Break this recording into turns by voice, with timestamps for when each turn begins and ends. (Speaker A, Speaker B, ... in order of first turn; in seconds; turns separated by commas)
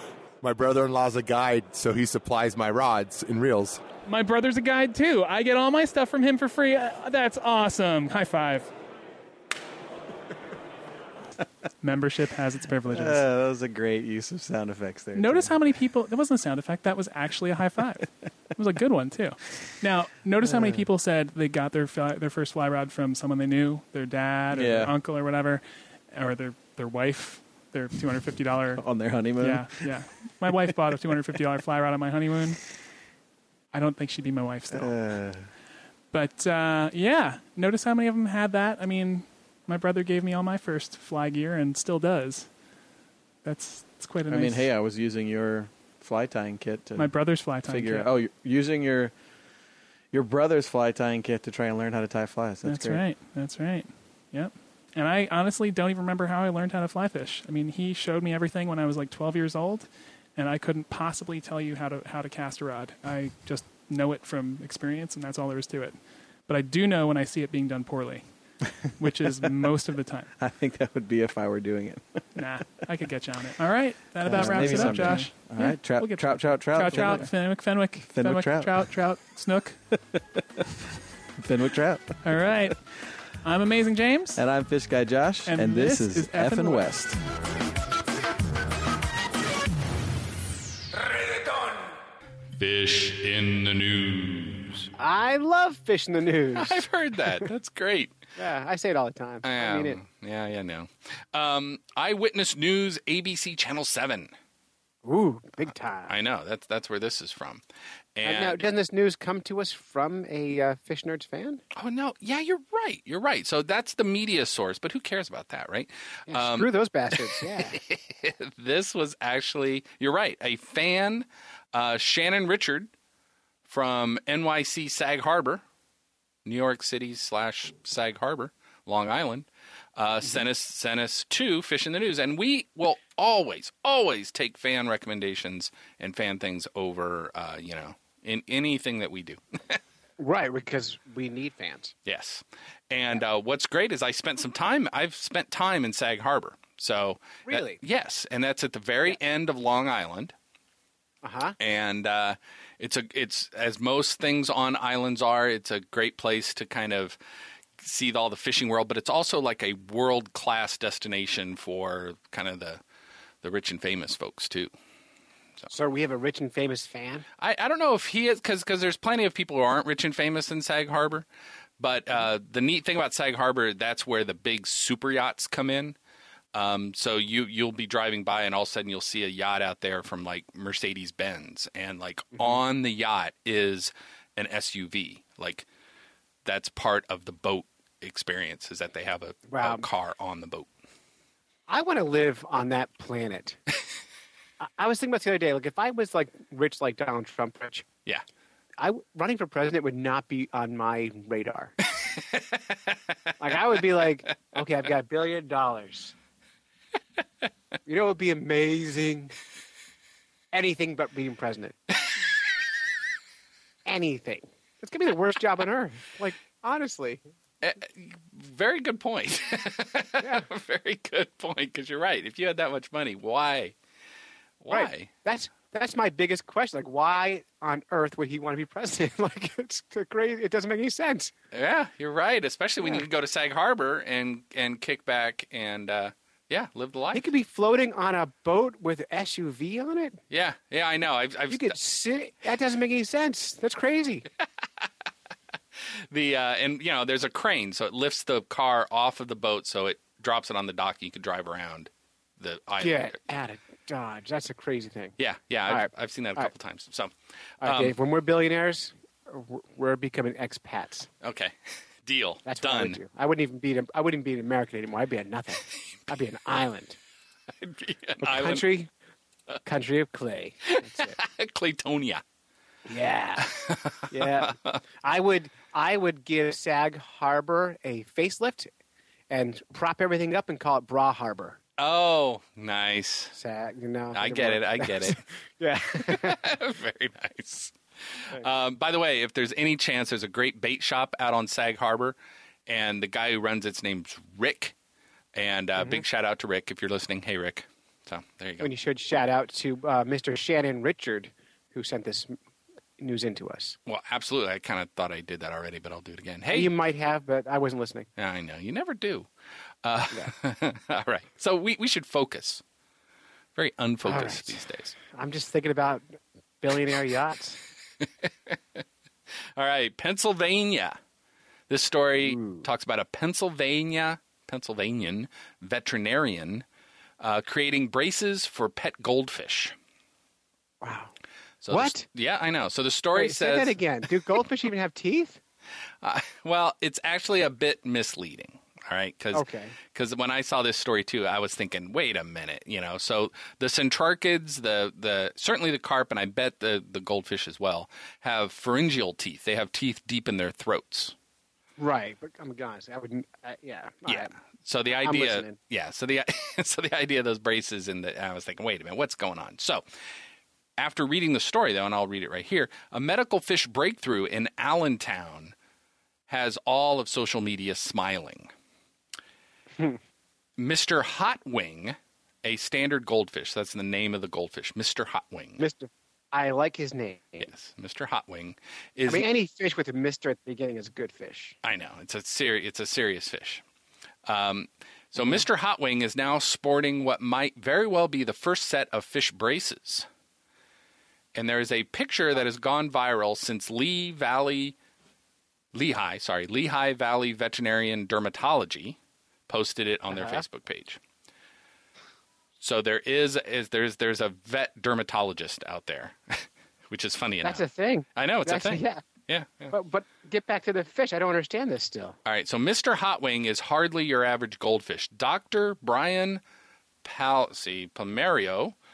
Speaker A: 0.4-3.8, Speaker B: 4.0-8.7, Speaker B: 11.8-13.2, Speaker C: 12.8-15.6, Speaker B: 15.1-28.8, Speaker C: 20.4-20.9, Speaker C: 24.5-24.9, Speaker C: 28.8-29.9, Speaker B: 29.4-32.6, Speaker B: 33.7-34.9, Speaker C: 34.7-35.5, Speaker B: 36.1-42.5, Speaker B: 43.4-44.7, Speaker C: 44.3-49.1, Speaker B: 47.0-48.1, Speaker C: 50.1-53.0, Speaker B: 52.6-66.0, Speaker B: 66.5-68.2, Speaker B: 69.0-70.3, Speaker C: 70.4-72.0, Speaker B: 72.3-79.8, Speaker C: 74.2-78.9, Speaker C: 81.4-82.7, Speaker B: 82.2-82.7, Speaker B: 83.4-84.4, Speaker C: 84.3-87.2, Speaker B: 85.5-86.9, Speaker D: 92.6-94.9, Speaker E: 95.0-96.8, Speaker D: 96.5-98.1, Speaker E: 98.4-100.0, Speaker D: 99.4-104.3, Speaker E: 105.0-106.1, Speaker D: 106.1-107.6, Speaker D: 108.2-108.6, Speaker E: 108.2-111.6, Speaker D: 111.7-116.7, Speaker E: 116.3-117.8, Speaker D: 117.3-122.9, Speaker D: 123.7-125.6, Speaker D: 126.5-139.8, Speaker E: 140.2-141.9, Speaker D: 142.1-150.3, Speaker E: 147.5-147.8, Speaker E: 151.2-151.6, Speaker D: 151.6-157.2, Speaker D: 157.8-162.8, Speaker D: 163.4-164.7, Speaker E: 165.7-167.2, Speaker D: 167.4-171.2, Speaker D: 171.8-176.0, Speaker D: 176.5-185.7, Speaker D: 186.4-190.7, Speaker E: 189.5-189.8, Speaker E: 191.7-193.6, Speaker E: 194.6-197.9, Speaker E: 198.8-201.7, Speaker E: 203.4-206.1, Speaker E: 207.8-209.3, Speaker E: 210.5-211.8, Speaker E: 213.8-217.2, Speaker D: 217.6-223.7, Speaker E: 220.2-220.4, Speaker D: 224.6-225.1, Speaker E: 224.7-231.3, Speaker D: 231.5-237.3, Speaker E: 232.8-233.1, Speaker E: 237.1-240.2, Speaker D: 240.3-241.8, Speaker E: 241.5-244.2, Speaker D: 246.1-253.1, Speaker E: 252.8-255.1, Speaker D: 255.2-257.9, Speaker E: 255.7-256.5, Speaker E: 257.6-261.1, Speaker D: 261.2-263.0, Speaker E: 262.4-267.0, Speaker D: 267.6-268.6, Speaker E: 268.2-268.9, Speaker E: 269.6-271.2, Speaker D: 270.7-272.2, Speaker E: 272.9-278.7, Speaker D: 273.5-274.8, Speaker E: 279.3-281.6, Speaker D: 281.8-283.3, Speaker E: 283.3-286.4, Speaker D: 284.1-285.2, Speaker D: 286.0-292.1, Speaker D: 292.7-294.7, Speaker D: 295.3-298.7, Speaker E: 295.8-296.0, Speaker E: 298.6-302.4, Speaker E: 303.0-303.8, Speaker D: 303.9-306.7, Speaker E: 306.5-308.1, Speaker D: 308.2-309.3, Speaker D: 309.8-312.6, Speaker D: 313.6-315.0, Speaker E: 314.0-317.6, Speaker D: 319.6-321.0, Speaker D: 321.7-326.6, Speaker E: 322.2-322.6, Speaker D: 327.2-329.7, Speaker E: 330.8-331.1, Speaker D: 331.6-333.8, Speaker E: 331.7-332.1, Speaker E: 333.1-335.4, Speaker D: 336.0-351.1, Speaker E: 339.3-339.7, Speaker E: 351.8-354.3, Speaker D: 354.1-359.8, Speaker E: 354.9-355.6, Speaker D: 360.8-365.5, Speaker D: 366.3-368.5, Speaker D: 370.6-375.6, Speaker E: 375.6-377.5, Speaker D: 377.4-379.3, Speaker E: 379.1-381.6, Speaker D: 381.6-383.6, Speaker D: 384.2-390.1, Speaker E: 385.2-385.4, Speaker D: 391.3-394.7, Speaker D: 395.7-399.0, Speaker D: 399.5-401.0, Speaker E: 400.1-400.4, Speaker D: 402.6-407.6, Speaker E: 407.4-409.0, Speaker D: 408.1-409.7, Speaker E: 409.7-412.1, Speaker D: 412.2-416.4, Speaker D: 417.0-418.7